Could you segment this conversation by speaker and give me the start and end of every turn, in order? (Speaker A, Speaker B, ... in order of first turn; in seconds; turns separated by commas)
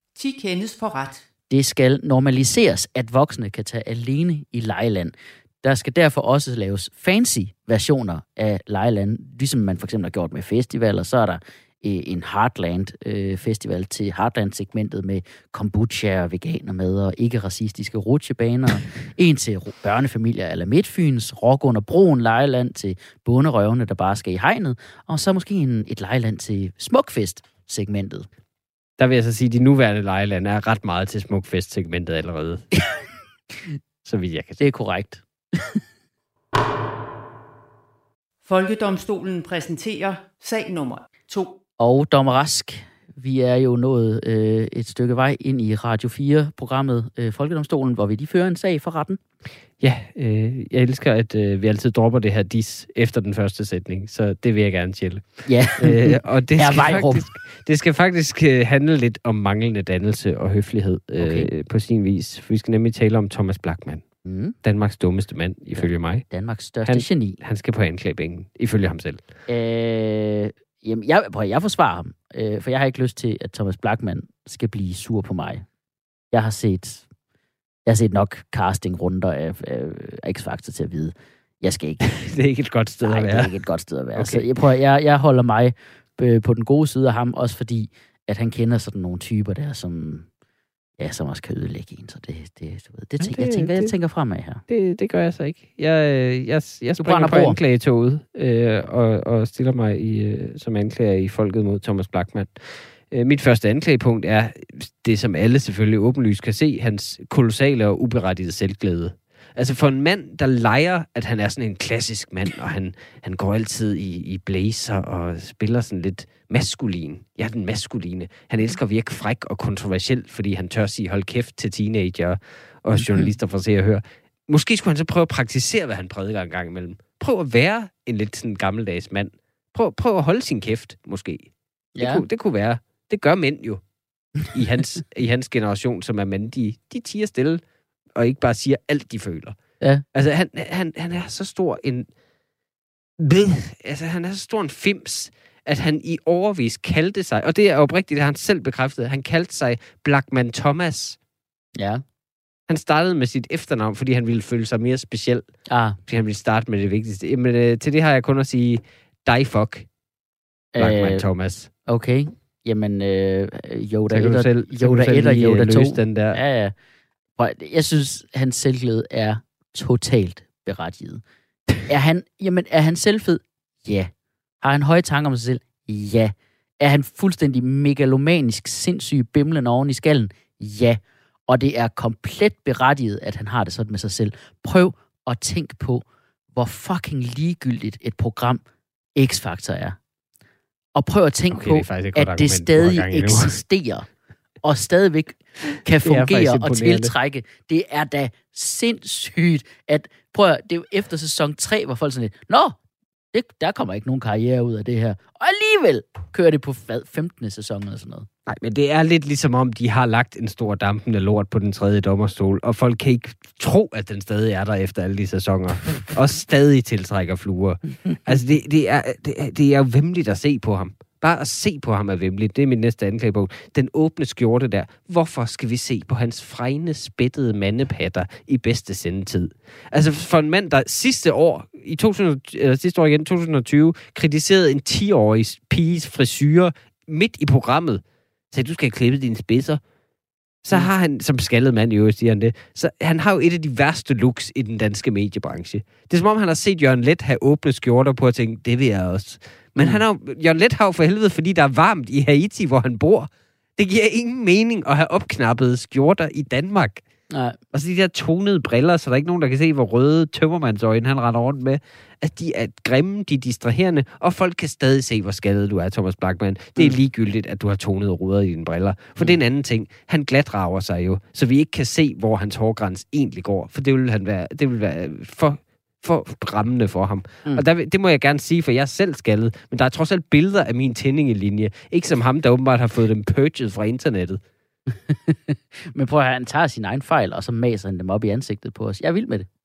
Speaker A: 0.1-1.2, Speaker B: 1.5-28.3, Speaker C: 29.0-32.7, Speaker C: 34.0-34.6, Speaker B: 34.6-35.8, Speaker A: 38.4-41.6, Speaker B: 41.8-49.2, Speaker C: 49.8-64.0, Speaker B: 55.4-57.2, Speaker B: 61.2-61.5, Speaker B: 64.2-64.5, Speaker C: 64.6-66.2, Speaker B: 65.8-67.4, Speaker C: 66.8-69.2, Speaker B: 69.5-75.6, Speaker B: 76.3-77.0, Speaker B: 77.8-82.3, Speaker C: 82.0-83.5, Speaker B: 83.0-90.2, Speaker C: 84.2-84.5, Speaker B: 91.0-94.6, Speaker C: 93.2-93.9, Speaker C: 94.7-133.8, Speaker B: 97.0-97.6, Speaker B: 122.9-123.3, Speaker B: 131.9-132.2, Speaker C: 134.5-137.6, Speaker C: 138.1-139.6, Speaker C: 140.1-142.1, Speaker C: 143.2-151.2, Speaker B: 151.8-152.0, Speaker C: 152.7-155.4, Speaker B: 155.7-156.0, Speaker C: 156.1-159.9, Speaker B: 160.7-161.2, Speaker C: 160.8-161.7, Speaker B: 161.8-166.7, Speaker C: 164.1-166.4, Speaker B: 167.4-171.2, Speaker B: 171.8-188.6, Speaker B: 189.2-190.0, Speaker B: 190.9-194.1, Speaker C: 191.5-193.6, Speaker B: 194.6-202.8, Speaker C: 196.0-197.1, Speaker B: 203.3-208.3, Speaker C: 208.5-239.8, Speaker C: 240.6-257.0, Speaker B: 249.8-250.0, Speaker B: 257.3-257.6, Speaker C: 257.7-284.4, Speaker B: 284.9-289.5